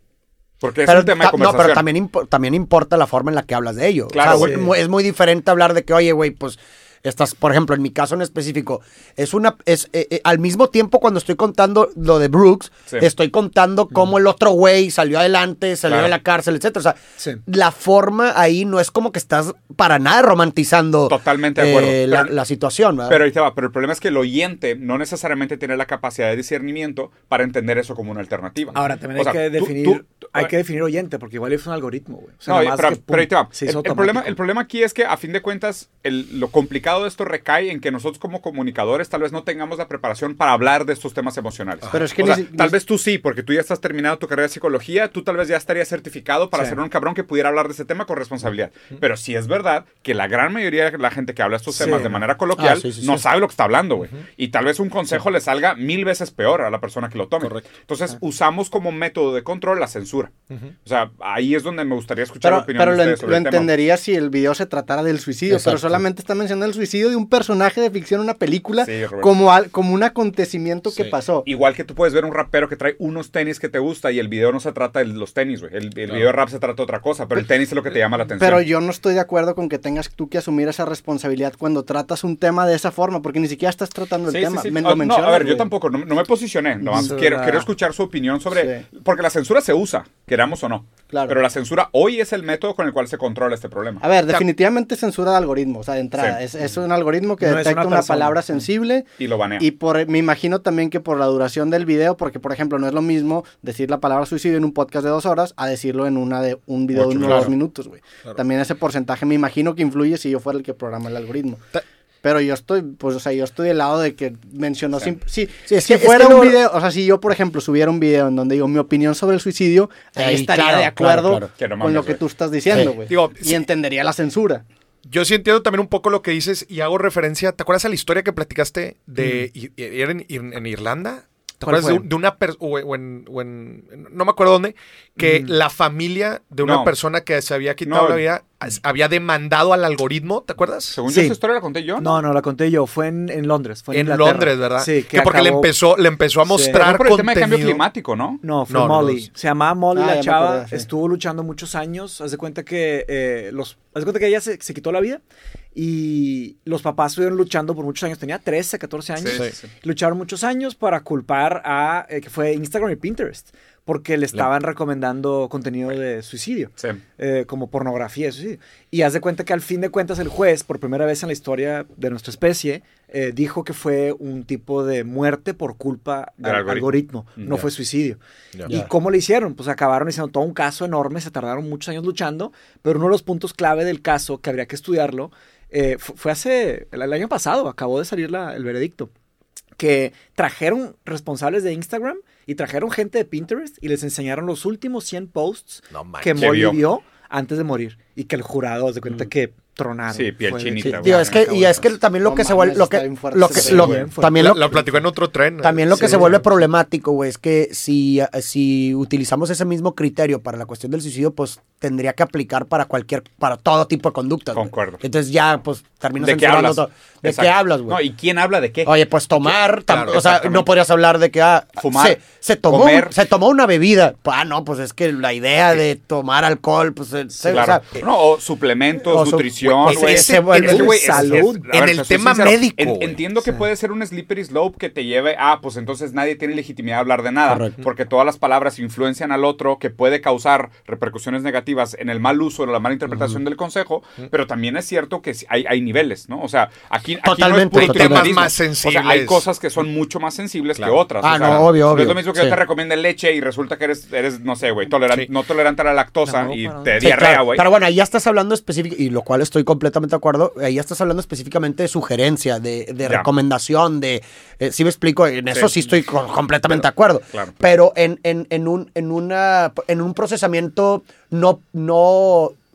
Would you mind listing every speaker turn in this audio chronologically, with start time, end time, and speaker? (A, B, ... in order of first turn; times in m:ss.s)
0:00.6-0:01.8 A
0:00.8-0:23.2 B
0:04.1-0:04.6 A
0:04.2-0:04.7 C
0:15.9-0:16.1 A
0:21.1-0:22.3 A
0:23.1-0:30.5 A
0:28.7-0:34.4 C
0:32.5-1:00.3 A
0:41.8-0:42.2 D
0:41.9-0:42.8 E
0:46.5-0:46.8 C
0:51.7-0:52.2 C
0:52.6-0:53.2 B
0:57.4-0:57.7 D
1:00.8-1:03.7 A
1:02.4-1:11.4 E
1:05.5-1:06.0 B
1:08.8-1:09.4 A
1:10.9-1:11.1 D
1:11.4-1:18.6 A
1:18.4-1:25.7 E
1:24.3-1:34.0 A
1:26.9-1:27.7 C
1:28.5-1:28.8 E
1:31.1-1:31.4 E
1:34.0-1:51.6 E
1:37.4-1:38.6 C
1:39.2-1:39.6 A
1:46.9-1:47.5 D
1:52.2-2:04.6 E
1:55.7-1:56.6 B
2:00.2-2:01.5 B
2:01.6-2:02.2 A
2:03.1-2:03.6 D
2:05.0-2:21.0 D
2:09.2-2:09.5 C
2:11.6-2:12.1 C
2:15.2-2:15.6 C
2:16.6-2:16.9 A
2:17.8-2:18.2 A
2:20.9-2:22.2 A
2:21.0-2:21.4 C
2:22.0-2:25.7 C
2:23.9-2:27.8 D
2:26.4-2:26.8 C
2:26.7-2:28.4 A
2:28.4-2:35.2 C
2:28.7-2:29.3 D
2:29.9-2:30.9 E
2:35.7-3:09.1 C
2:39.2-2:39.7 A
2:56.4-2:57.6 A
3:09.8-3:21.9 C
3:15.9-3:16.7 D
3:16.4-3:16.8 A
3:20.1-3:21.4 A
3:20.8-3:24.8 B
3:22.2-3:24.1 E
3:23.5-3:25.0 C
3:24.3-3:26.1 D
3:25.6-3:38.0 B
3:25.9-3:26.5 C
3:34.5-3:35.0 A
3:36.2-3:38.9 A
3:38.8-3:48.0 B
3:39.9-3:40.4 D
3:40.2-3:40.6 A
3:41.8-3:43.1 A
3:47.5-4:17.6 A
3:49.0-3:51.2 B
3:49.8-3:53.2 D
3:50.5-3:51.6 C
3:57.4-3:57.7 B
4:07.2-4:08.5 B
4:07.7-4:09.5 D
4:10.8-4:11.6 D
4:11.2-4:12.6 B
4:16.2-4:17.1 C
4:17.0-4:32.5 B
4:26.7-4:27.5 A